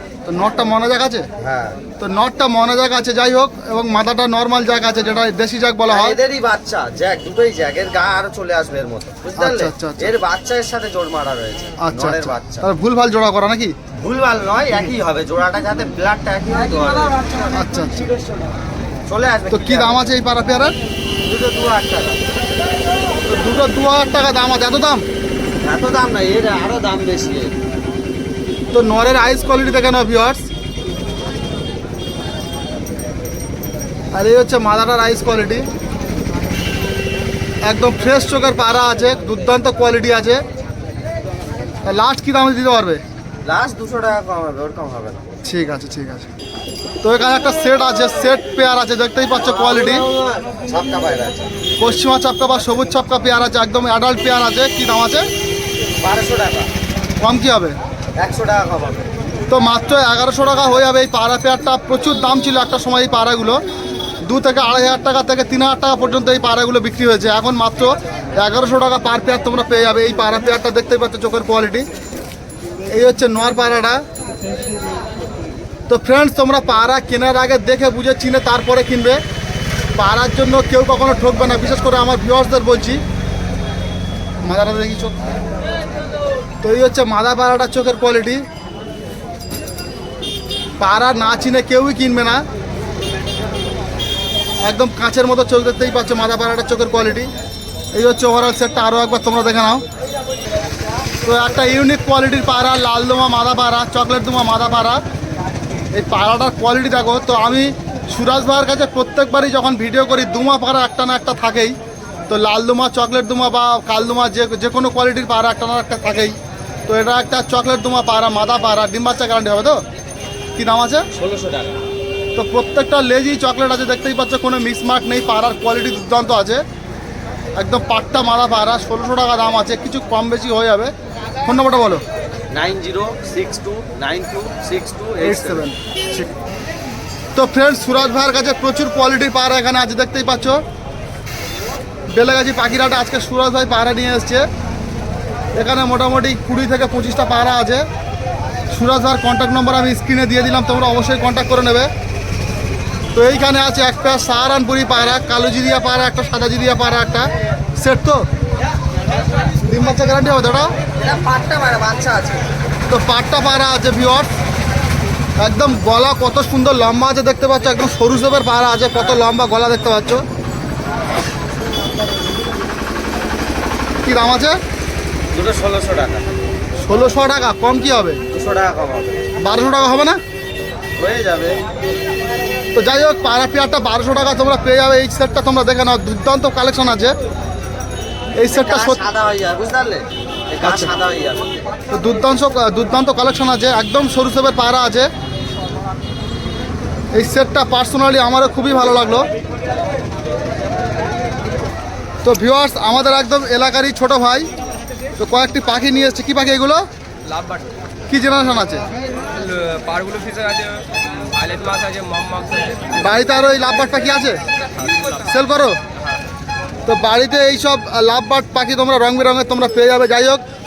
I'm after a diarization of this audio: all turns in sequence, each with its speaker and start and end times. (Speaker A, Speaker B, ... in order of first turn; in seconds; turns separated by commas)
Speaker A: 0.2-1.3, Speaker B: 1.4-1.8, Speaker A: 2.0-6.2, Speaker B: 5.9-12.7, Speaker A: 9.4-10.1, Speaker A: 11.8-13.7, Speaker B: 13.9-17.5, Speaker A: 17.5-18.0, Speaker B: 19.1-20.0, Speaker A: 19.5-20.7, Speaker B: 21.2-22.2, Speaker A: 23.2-25.0, Speaker B: 25.6-27.6, Speaker A: 28.7-30.4, Speaker A: 34.1-35.6, Speaker A: 37.6-40.4, Speaker A: 41.8-43.0, Speaker B: 43.4-45.2, Speaker A: 45.4-46.3, Speaker A: 47.0-50.0, Speaker B: 49.4-51.6, Speaker A: 51.8-55.2, Speaker B: 56.0-56.7, Speaker A: 57.2-57.8, Speaker B: 58.2-59.1, Speaker A: 59.5-63.6, Speaker A: 64.2-71.9, Speaker A: 72.9-74.0, Speaker A: 75.9-79.2, Speaker A: 80.0-83.0, Speaker A: 84.4-85.2, Speaker A: 86.6-88.4, Speaker A: 90.8-92.4, Speaker A: 94.6-97.3, Speaker A: 97.9-99.8, Speaker A: 101.2-105.0, Speaker A: 105.9-111.8, Speaker A: 112.3-116.3, Speaker A: 116.9-119.8, Speaker A: 120.5-121.1, Speaker B: 121.1-121.8, Speaker A: 122.3-126.6, Speaker A: 127.6-130.9, Speaker A: 131.4-132.0, Speaker B: 132.5-135.6, Speaker A: 135.2-136.3, Speaker A: 137.3-140.6, Speaker A: 142.1-144.4, Speaker A: 145.6-147.8, Speaker A: 148.7-151.9, Speaker A: 153.1-158.2, Speaker A: 159.6-160.7, Speaker B: 161.0-162.4, Speaker A: 162.9-164.3, Speaker A: 165.4-170.2, Speaker A: 174.0-174.6, Speaker B: 175.3-176.2, Speaker A: 176.8-178.2, Speaker B: 178.3-179.2, Speaker A: 179.4-180.2, Speaker B: 181.0-181.6, Speaker A: 182.7-187.1, Speaker A: 188.4-189.0, Speaker B: 188.5-191.6, Speaker A: 190.6-190.9, Speaker A: 191.9-195.1, Speaker A: 197.1-199.3, Speaker A: 202.2-204.5, Speaker A: 205.2-206.8, Speaker C: 207.2-207.7, Speaker A: 208.1-208.8, Speaker C: 209.3-212.8, Speaker A: 212.9-214.4, Speaker A: 215.2-215.8, Speaker A: 216.8-220.4